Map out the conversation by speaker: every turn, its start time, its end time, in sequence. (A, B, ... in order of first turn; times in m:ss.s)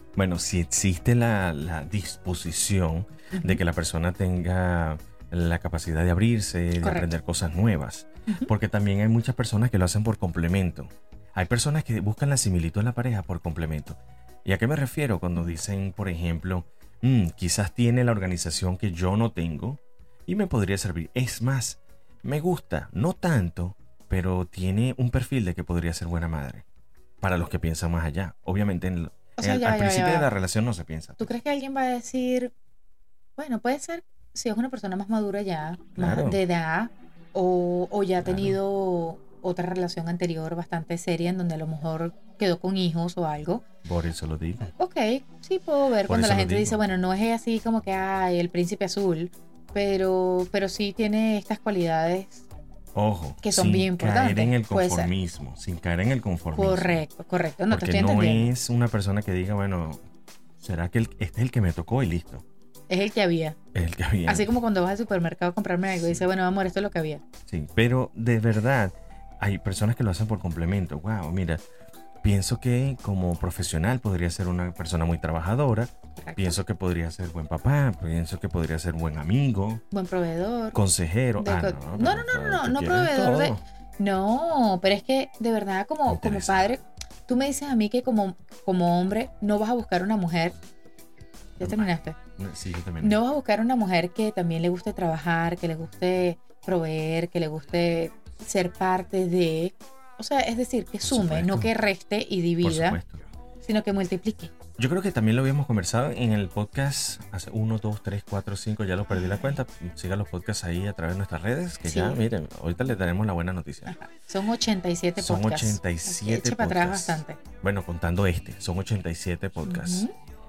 0:00.2-0:26.6 A
0:03.3-0:03.6 B
0:06.8-0:07.1 B
0:27.2-0:31.3 A
0:29.4-0:30.3 B
0:31.2-0:32.5 B
0:33.4-0:43.6 B
0:36.0-0:36.4 A
0:38.2-0:38.6 A
0:43.8-0:44.7 A
0:44.8-0:52.4 B
0:46.0-0:46.8 A
0:52.9-0:57.0 A
0:53.4-0:55.1 B
0:56.5-0:58.5 B
0:57.7-1:00.0 A
1:00.6-1:02.4 A
1:02.9-1:03.6 B
1:03.7-1:04.5 A
1:04.3-1:07.2 B
1:07.5-1:11.6 A
1:12.2-1:19.8 A
1:16.2-1:16.6 B
1:19.9-1:20.8 B
1:20.7-1:23.6 A
1:21.4-1:30.6 B
1:26.1-1:26.7 A
1:31.6-1:33.2 A
1:31.6-1:32.2 B
1:33.0-1:43.0 B
1:41.0-1:41.7 A
1:42.6-1:43.2 A
1:43.6-1:44.5 B
1:44.8-1:53.9 A
1:49.1-1:49.6 B
1:51.8-1:52.2 B
1:53.8-1:57.4 B
1:55.2-2:00.0 A
1:59.6-2:00.1 B